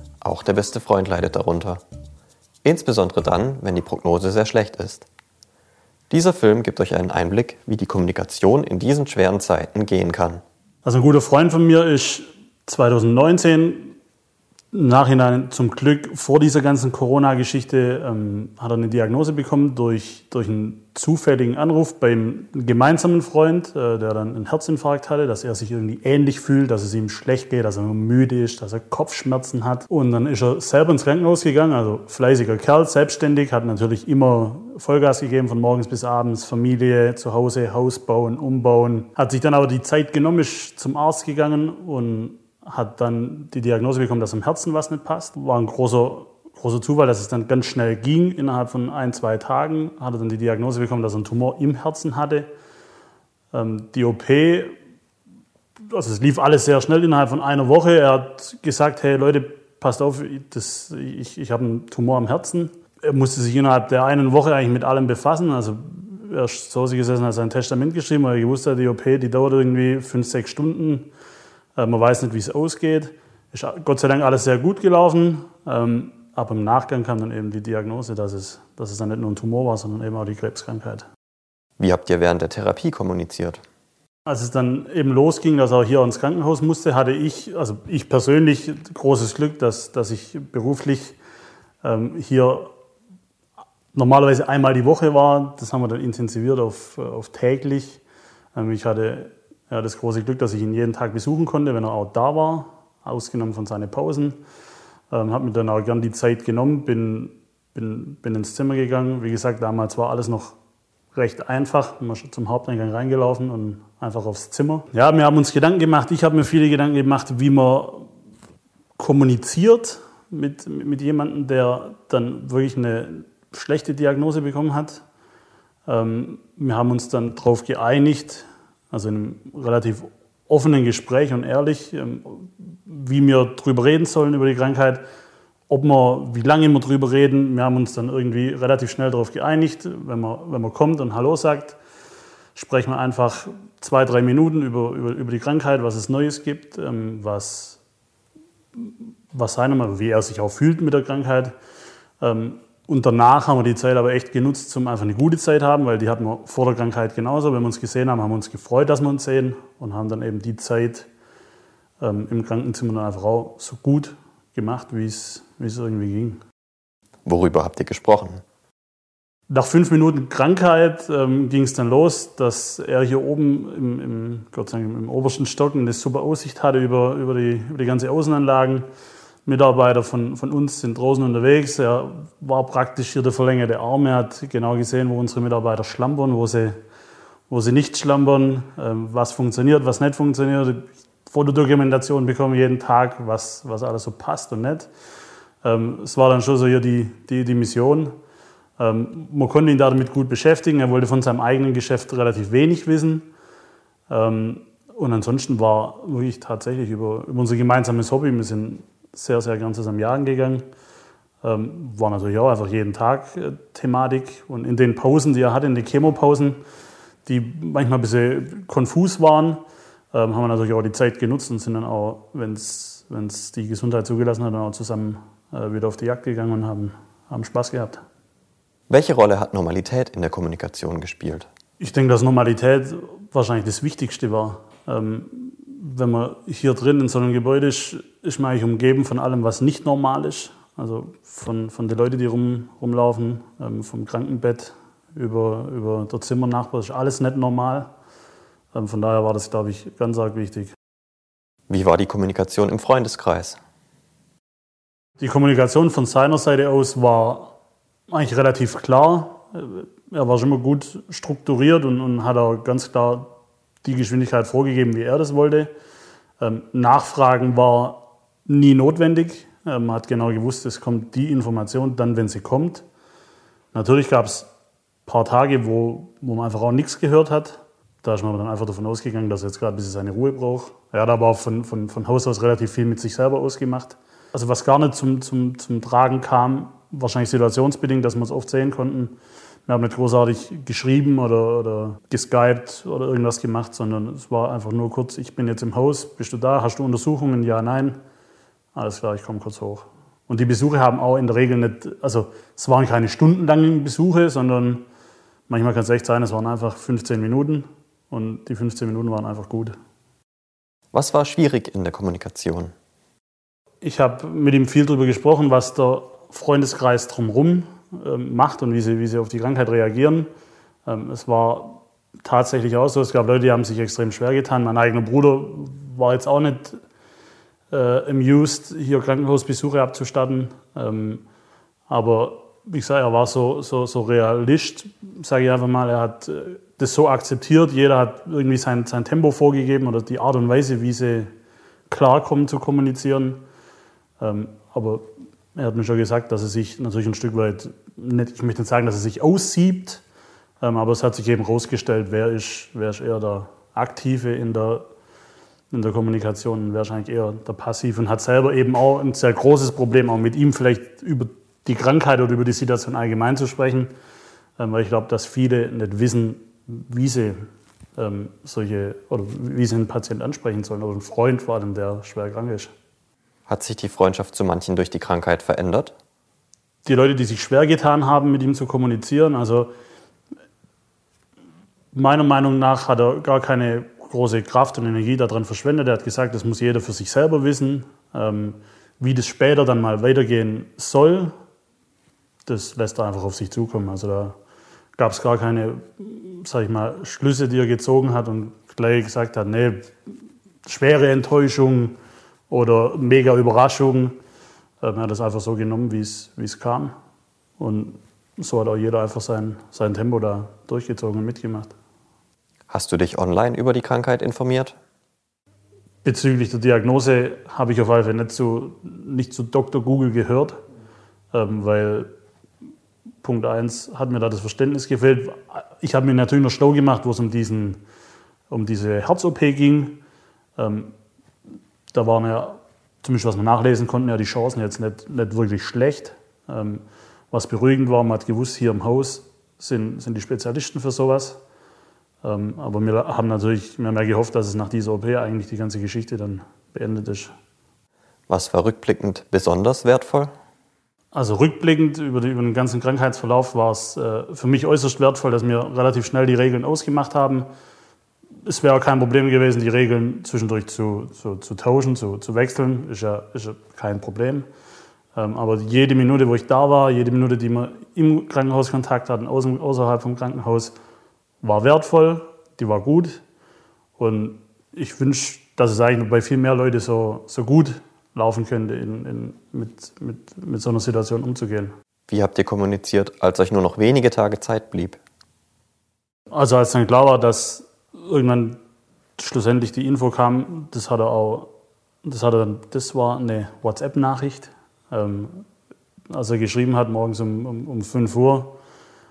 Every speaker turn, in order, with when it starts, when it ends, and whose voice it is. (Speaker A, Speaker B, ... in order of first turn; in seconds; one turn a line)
Speaker A: 0.2-1.8
Speaker A: 2.6-5.1
Speaker A: 6.1-10.4
Speaker B: 10.8-13.9
Speaker B: 14.7-52.5
Speaker B: 53.5-54.7
Speaker B: 55.9-71.1
Speaker B: 71.8-81.1
Speaker A: 81.8-83.6
Speaker B: 84.2-91.2
Speaker B: 91.8-92.7
Speaker B: 93.9-98.0
Speaker B: 98.5-104.4
Speaker B: 105.1-110.6
Speaker B: 111.1-118.1
Speaker B: 119.0-125.0
Speaker B: 125.8-135.0
Speaker B: 135.7-141.8
Speaker B: 142.5-147.8
Speaker B: 148.8-151.5
Speaker B: 152.2-161.1
Speaker B: 162.0-166.4
Speaker A: 167.2-168.4
Speaker B: 169.5-178.8
Speaker B: 179.4-186.7
Speaker B: 187.5-194.9
Speaker B: 195.6-198.1
Speaker B: 198.8-203.3
Speaker B: 204.1-210.6
Speaker B: 211.4-216.6
Speaker B: 217.2-219.6
Speaker B: 220.1-228.0
Speaker A: 228.9-231.5
Speaker B: 231.8-247.9
Speaker B: 248.7-250.8
Speaker A: 251.7-253.6
Speaker B: 255.2-257.6
Speaker B: 258.1-265.7
Speaker B: 266.4-272.8
Speaker B: 273.7-274.5
Speaker B: 275.0-289.1
Speaker B: 289.6-298.0
Speaker B: 298.7-304.8
Speaker B: 305.5-309.7
Speaker A: 310.9-312.7
Speaker B: 313.8-320.3
Speaker B: 320.9-326.8
Speaker B: 327.7-331.2
Speaker B: 331.9-341.3
Speaker B: 341.9-343.4
Speaker B: 344.2-350.0
Speaker B: 350.6-354.9
Speaker B: 355.7-363.9
Speaker B: 364.6-367.4
Speaker B: 368.0-372.7
Speaker A: 373.5-375.9
Speaker B: 376.8-379.7
Speaker B: 381.9-391.3
Speaker B: 392.4-394.4
Speaker B: 394.9-399.9
Speaker B: 400.6-401.9
Speaker B: 402.5-404.1
Speaker B: 404.8-406.9
Speaker B: 407.6-411.7
Speaker A: 412.7-414.8
Speaker B: 416.0-420.6
Speaker B: 421.3-422.1
Speaker B: 423.2-427.8
Speaker B: 428.5-430.0
Speaker B: 430.6-430.9
Speaker B: 431.9-441.4
Speaker B: 442.2-447.3
Speaker A: 448.3-450.3
Speaker B: 451.1-457.5
Speaker B: 458.4-464.4
Speaker B: 465.1-470.7
Speaker B: 471.4-473.2
Speaker B: 474.0-481.7
Speaker A: 482.1-485.0
Speaker B: 486.3-488.6
Speaker B: 489.2-491.5
Speaker B: 492.0-495.4
Speaker B: 496.1-498.6